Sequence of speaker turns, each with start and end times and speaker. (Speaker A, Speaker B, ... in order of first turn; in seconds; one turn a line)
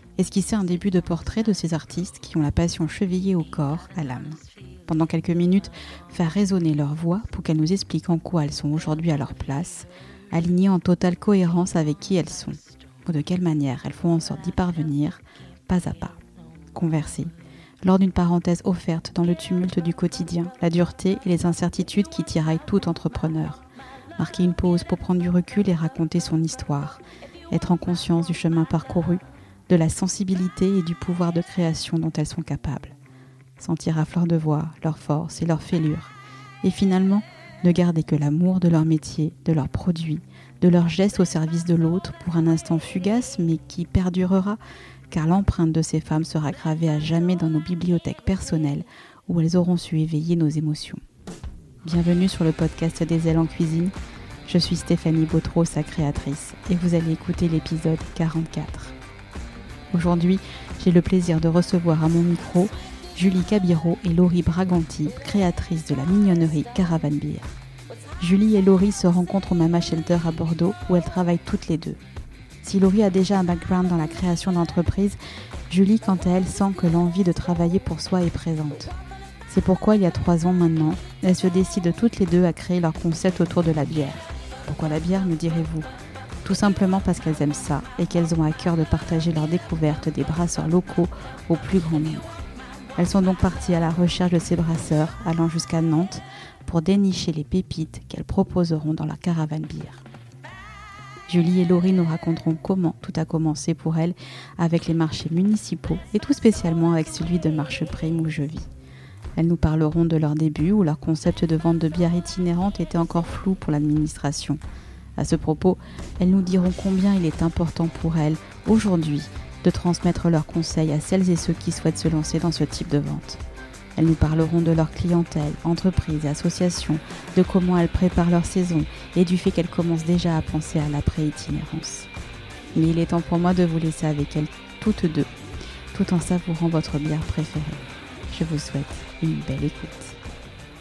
Speaker A: 0.2-16.2
Speaker A: 16.7-23.6
Speaker A: 24.2-32.9
Speaker A: 33.6-36.1
Speaker A: 36.6-44.6
Speaker A: 45.1-51.0
Speaker A: 51.8-53.9
Speaker A: 54.5-58.9
Speaker A: 59.9-67.5
Speaker A: 68.2-72.0
Speaker A: 72.6-75.2
Speaker A: 75.7-78.9
Speaker A: 79.5-85.9
Speaker A: 86.4-92.4
Speaker A: 93.0-100.0
Speaker A: 101.3-108.7
Speaker A: 109.4-114.6
Speaker A: 115.2-123.4
Speaker A: 124.0-132.1
Speaker A: 132.7-135.3
Speaker A: 135.9-140.1